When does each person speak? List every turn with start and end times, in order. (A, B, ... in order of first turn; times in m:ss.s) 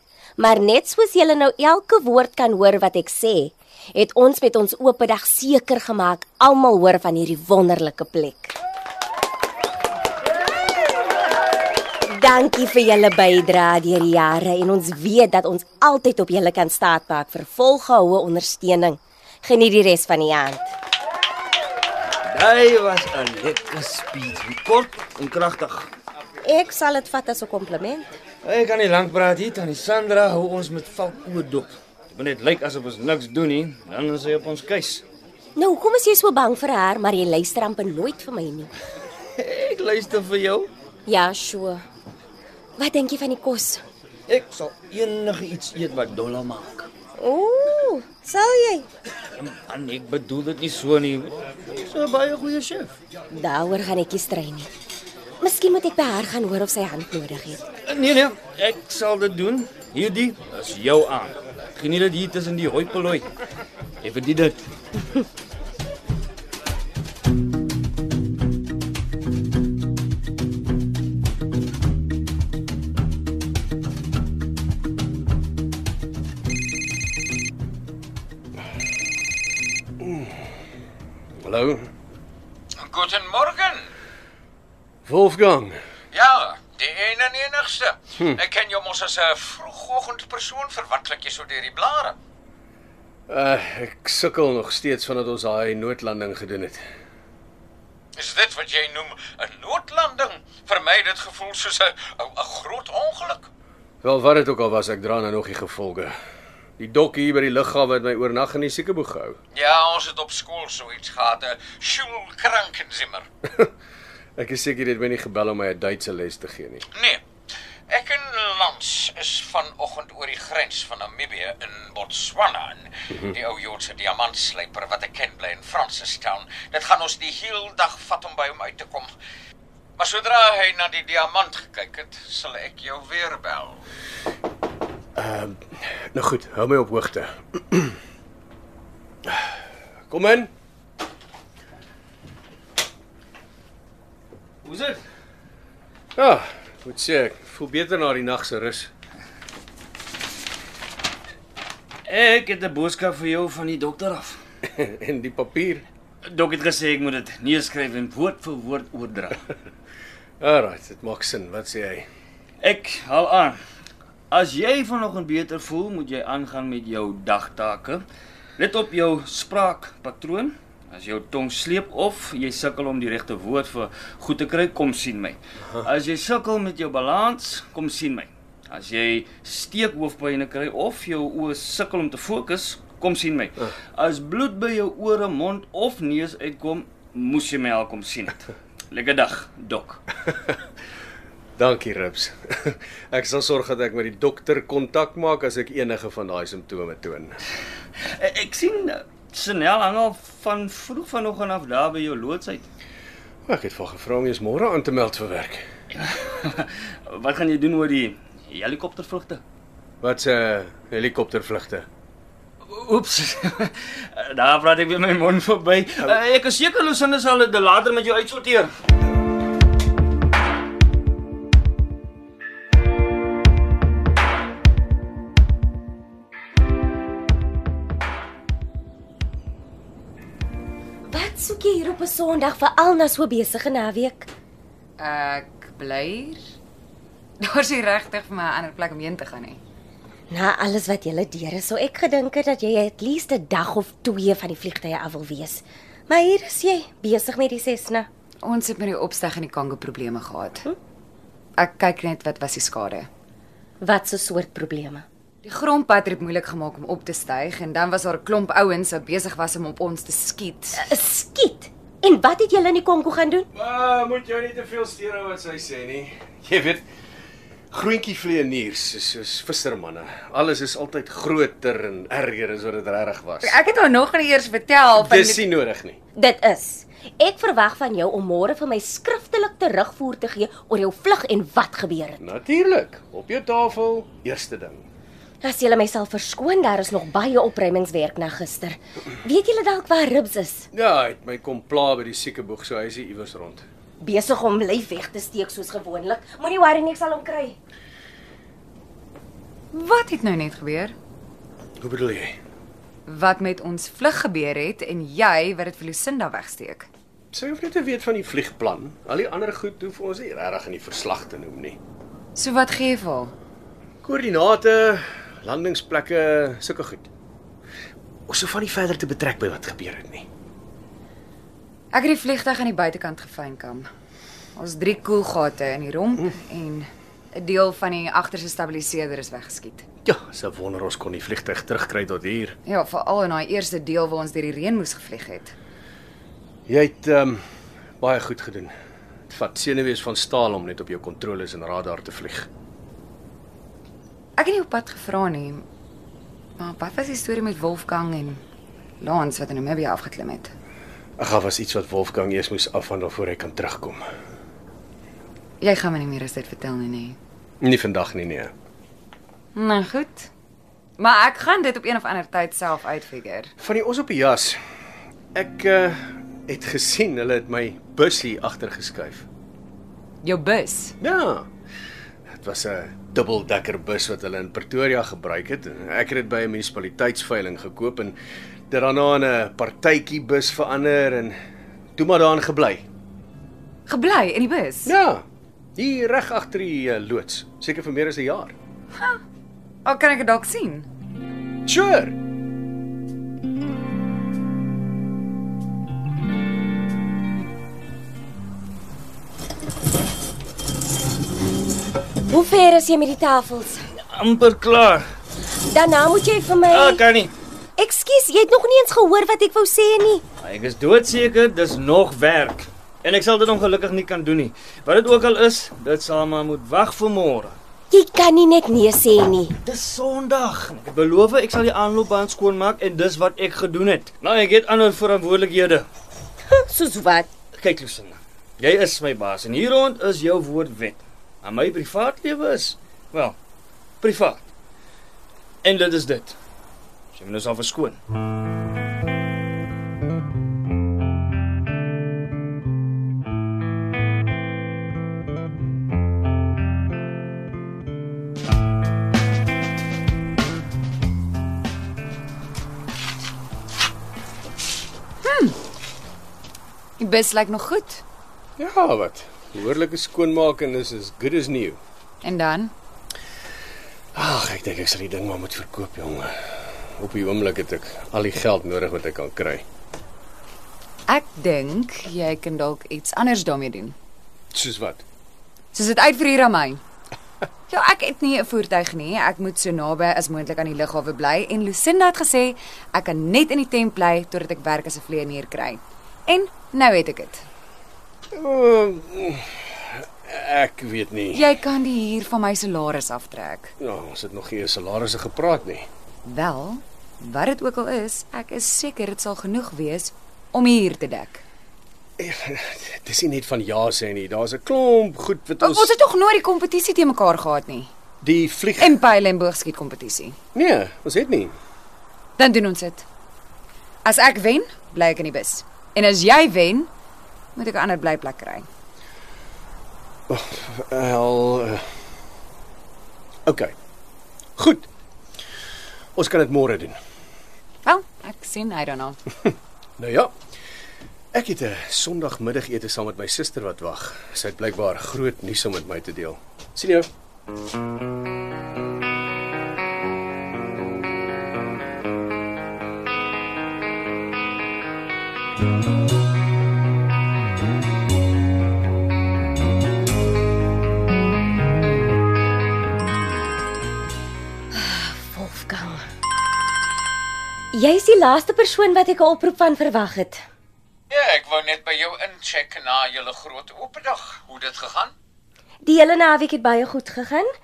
0:00.4-0:08.5 A
0:12.1-0:20.7 A
0:22.2-0:25.9 B
0:26.4-0:28.2 A
0:28.4-0:35.0 B
0:35.6-0:38.7 A
0:39.4-0:40.7 B
0:41.1-0:41.8 A
0:42.8-0:43.8 A
0:44.3-0:46.9 B
0:47.2-0:48.9 A
0:49.4-0:52.9 B
0:53.3-0:54.7 A
0:55.4-0:57.6 A
0:57.8-1:03.2 B
1:04.0-1:04.6 B
1:20.0-1:20.4 C
1:21.4-1:21.9 C
1:22.8-1:23.9 D
1:25.0-1:25.8 C
1:26.1-1:32.2 D
1:33.3-1:36.8 C
1:38.1-1:43.5 D
1:44.0-1:46.1 C
1:46.8-1:49.4 C
1:49.5-1:53.2 D
1:54.4-1:56.8 C
1:56.9-1:57.2 D
1:57.9-2:09.1 D
2:10.0-2:13.8 D
2:15.2-2:18.0 C
2:19.2-2:19.5 C
2:20.1-2:20.5 C
2:24.6-2:25.0 B
2:26.2-2:28.9 C
2:32.0-2:34.4 B
2:34.6-2:35.8 C
2:36.3-2:39.4 B
2:40.4-2:42.1 C
2:42.6-2:43.6 B
2:44.3-2:48.0 B
2:48.6-3:10.0 B
3:11.6-3:17.4 C
3:18.1-3:22.7 B
3:23.5-3:25.6 C
3:25.9-3:29.4 B
3:30.0-3:31.8 C
3:32.7-3:38.7 B
3:51.0-3:54.3 A
3:55.0-3:56.4 E
3:57.4-3:59.6 E
4:00.3-4:08.1 A
4:08.4-4:10.6 E
4:11.6-4:13.1 E
4:13.8-4:15.0 A
4:15.4-4:20.8 E
4:20.7-4:23.5 A
4:23.5-4:26.8 C
4:27.7-4:33.6 C
4:33.4-4:35.4 E
4:34.9-4:36.0 C
4:36.1-4:42.2 A
4:42.2-4:44.8 C
4:45.4-4:50.7 A
4:50.7-4:53.6 C
4:54.0-4:57.6 A
4:59.7-5:00.9 E
5:01.8-5:02.4 C
5:03.0-5:06.9 E
5:07.3-5:11.8 C
5:12.3-5:13.3 E
5:14.0-5:17.1 C
5:18.3-5:20.3 C
5:21.9-5:23.9 E
5:24.6-5:29.8 E
5:30.0-5:32.6 C
5:32.6-5:35.5 E
5:36.7-5:37.4 C
5:38.0-5:38.7 C
5:39.3-5:42.5 C
5:44.4-5:45.6 E
5:46.6-5:48.4 E
5:49.0-5:50.5 E
5:51.2-5:54.0 C
5:55.6-5:57.2 E
5:57.6-5:58.5 C
5:59.5-6:00.3 E
6:01.0-6:03.5 E
6:03.6-6:04.6 C
6:05.3-6:09.2 C
6:10.2-6:11.0 E
6:11.0-6:11.5 C
6:12.3-6:18.2 C
6:18.7-6:21.4 C
6:22.0-6:22.8 C
6:23.8-6:24.9 E
6:24.8-6:25.2 C
6:25.8-6:28.5 C
6:29.8-6:30.9 E
6:31.7-6:32.2 C
6:42.3-6:43.8 A
6:44.1-6:45.0 B
6:45.7-6:47.0 A
6:46.7-6:47.3 B
6:47.8-6:50.2 A
6:50.4-6:57.6 B
6:57.9-6:59.6 A
6:59.6-7:05.8 B
7:06.5-7:07.3 A
7:07.5-7:13.4 B
7:14.0-7:14.5 B
7:15.6-7:16.4 B
7:17.1-7:18.0 B
7:35.2-7:35.6 E
7:37.0-7:38.0 E
7:38.6-7:41.8 C
7:42.2-7:42.7 E
7:44.1-7:49.6 C
7:51.1-7:54.0 E
7:54.5-7:55.0 C
7:55.7-7:56.8 E
7:57.7-8:07.4 E
8:08.3-8:11.5 C
8:11.3-8:13.7 E
8:13.8-8:15.9 C
8:16.2-8:21.4 E
8:22.2-8:25.9 C
8:25.6-8:27.9 E
8:28.2-8:29.0 C
8:28.8-8:30.4 E
8:30.5-8:31.5 C
8:32.4-8:33.0 E
8:34.0-8:36.9 E
8:37.6-8:38.7 E
8:40.3-8:41.8 C
8:43.4-8:43.7 C
8:44.6-8:44.9 C
8:46.2-8:47.0 C
8:47.8-8:49.2 E
8:50.0-8:50.3 C
8:51.3-8:57.1 C
9:14.7-9:16.0 A
9:17.7-9:20.4 A
9:21.1-9:25.1 D
9:25.8-9:27.5 A